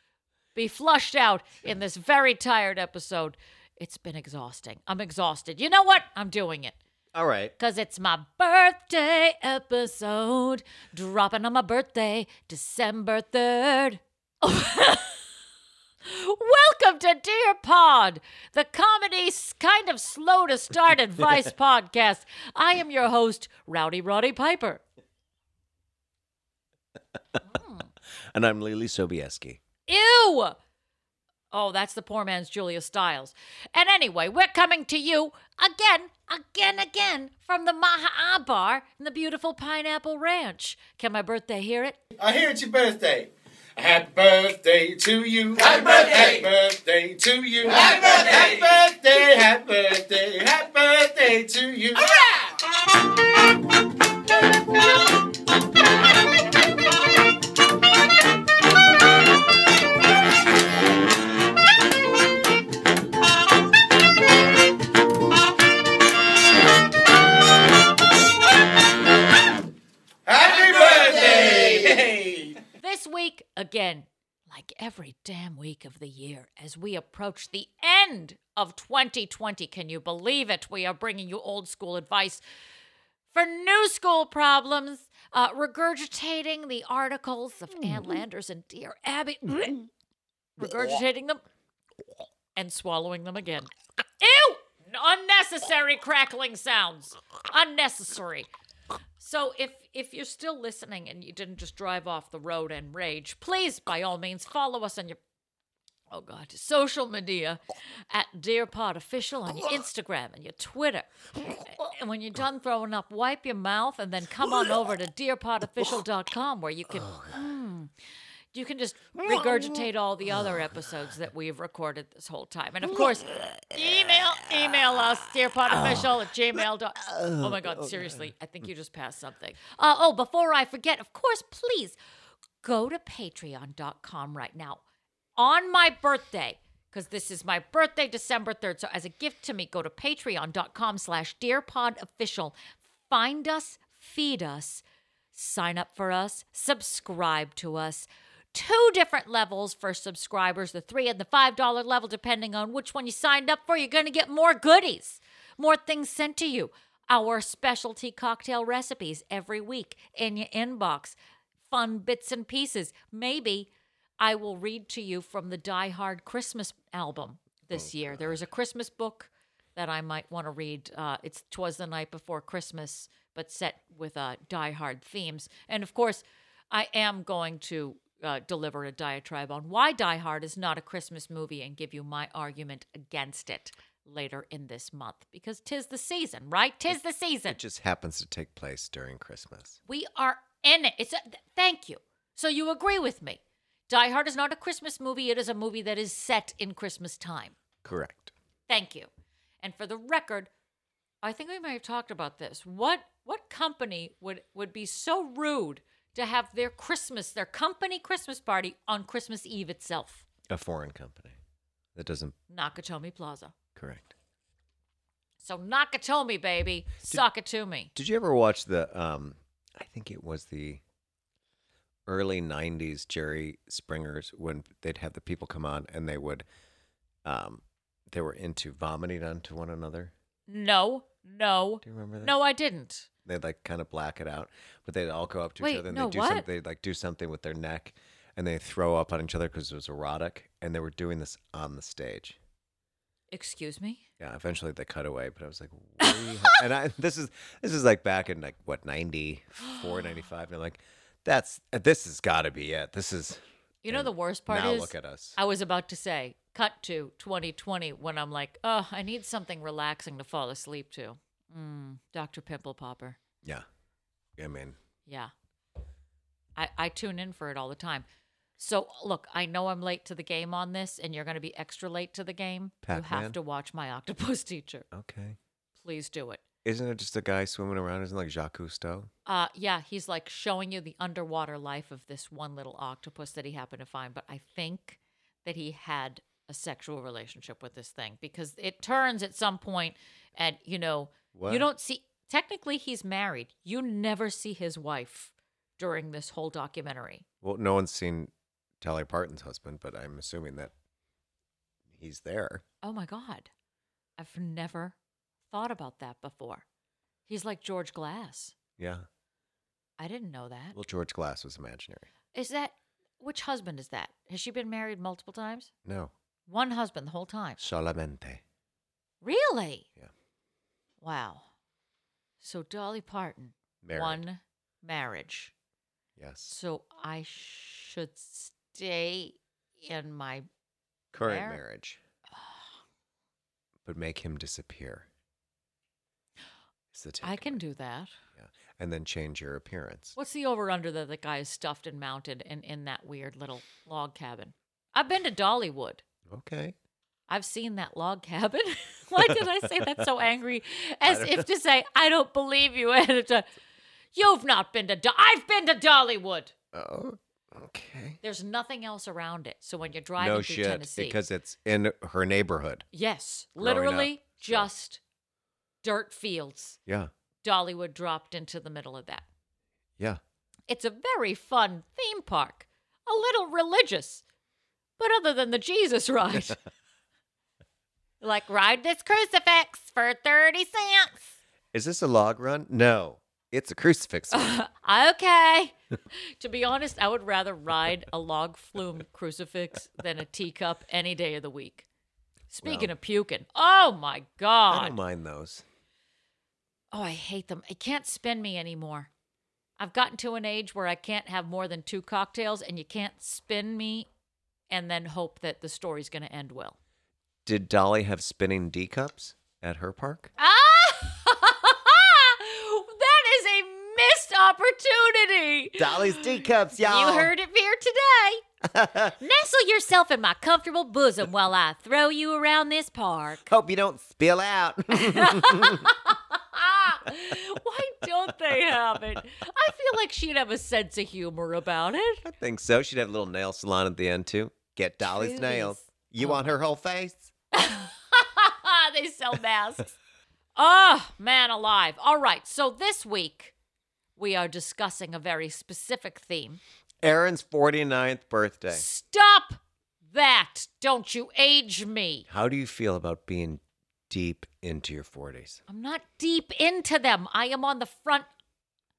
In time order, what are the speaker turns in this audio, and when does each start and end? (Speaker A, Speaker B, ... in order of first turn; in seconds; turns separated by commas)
Speaker A: 0.6-6.8, Speaker B: 7.2-7.5, Speaker A: 7.6-15.2, Speaker A: 16.1-24.8, Speaker A: 27.5-27.9, Speaker B: 28.3-29.6, Speaker A: 29.9-30.6, Speaker A: 31.5-42.0, Speaker C: 42.2-52.3, Speaker C: 70.3-72.6, Speaker A: 72.8-82.4, Speaker A: 83.3-89.9, Speaker A: 90.6-91.4, Speaker A: 92.5-98.5, Speaker A: 99.2-105.2, Speaker A: 106.1-117.9, Speaker B: 116.9-117.4, Speaker A: 118.5-132.0, Speaker B: 119.3-119.8, Speaker B: 120.4-120.6, Speaker B: 122.9-125.0, Speaker B: 125.7-128.3, Speaker A: 132.6-134.8, Speaker A: 135.4-161.2, Speaker A: 161.7-163.7, Speaker A: 164.2-187.6, Speaker B: 167.7-168.4, Speaker B: 187.5-189.8, Speaker A: 189.9-197.6, Speaker B: 197.8-198.3, Speaker A: 198.7-199.1, Speaker A: 199.6-200.5, Speaker A: 201.2-210.3, Speaker B: 210.5-211.4, Speaker B: 211.9-212.4, Speaker A: 212.5-213.5, Speaker B: 213.8-214.1, Speaker A: 215.4-217.9, Speaker B: 217.9-220.8, Speaker B: 222.1-226.4, Speaker B: 227.2-230.1, Speaker A: 230.5-233.1, Speaker B: 231.8-232.4, Speaker B: 233.2-242.4, Speaker A: 235.6-236.5, Speaker A: 243.3-244.0, Speaker B: 244.2-255.4, Speaker A: 246.0-246.6, Speaker A: 249.6-250.1, Speaker A: 253.8-263.2, Speaker B: 264.4-264.8, Speaker A: 265.1-265.3, Speaker A: 266.6-268.1, Speaker A: 268.6-274.9, Speaker B: 272.8-273.4, Speaker B: 274.9-275.4, Speaker A: 275.8-276.4, Speaker B: 276.6-279.1, Speaker A: 279.3-297.2, Speaker B: 291.3-291.7, Speaker B: 297.4-300.7, Speaker B: 301.9-302.6, Speaker A: 302.8-303.5, Speaker A: 304.2-304.9, Speaker A: 305.5-306.6, Speaker A: 307.3-308.5, Speaker B: 308.8-309.1, Speaker A: 310.0-310.8, Speaker B: 310.7-312.1, Speaker A: 312.3-315.7, Speaker B: 315.9-316.1, Speaker A: 316.5-317.6, Speaker B: 317.6-318.4, Speaker A: 319.2-319.9, Speaker A: 321.0-321.5, Speaker A: 322.4-325.5, Speaker B: 323.8-324.2, Speaker B: 326.2-326.5, Speaker A: 326.5-330.5, Speaker B: 331.1-332.0, Speaker A: 331.2-331.6, Speaker B: 333.9-335.1, Speaker B: 336.9-337.6, Speaker A: 337.2-338.1, Speaker B: 338.4-340.2, Speaker A: 340.2-346.0, Speaker B: 346.3-346.8, Speaker A: 347.3-353.5, Speaker B: 349.2-350.0, Speaker B: 351.0-351.5, Speaker A: 354.1-356.5, Speaker B: 356.7-358.2, Speaker A: 358.2-361.2, Speaker B: 360.2-362.9, Speaker A: 362.9-365.0, Speaker B: 363.6-364.7, Speaker A: 365.8-366.8, Speaker B: 366.9-367.1, Speaker A: 367.4-369.2, Speaker A: 370.7-374.2, Speaker A: 375.0-376.6, Speaker A: 378.2-381.4, Speaker B: 381.7-384.6, Speaker A: 384.3-391.9, Speaker A: 392.5-395.0, Speaker B: 392.6-392.9, Speaker B: 394.7-395.6, Speaker A: 396.9-399.1, Speaker A: 399.8-404.1, Speaker A: 404.7-406.8, Speaker B: 407.5-410.3, Speaker A: 410.4-418.4, Speaker B: 415.8-417.3, Speaker B: 418.6-419.1, Speaker A: 419.2-423.5, Speaker B: 423.5-425.9, Speaker A: 424.9-432.2, Speaker B: 432.2-437.3, Speaker A: 435.0-436.5, Speaker A: 437.5-440.0, Speaker A: 440.6-443.5, Speaker A: 444.2-446.6, Speaker B: 447.0-448.9, Speaker A: 448.7-449.6, Speaker A: 450.1-452.3, Speaker B: 452.3-455.6, Speaker A: 455.7-458.3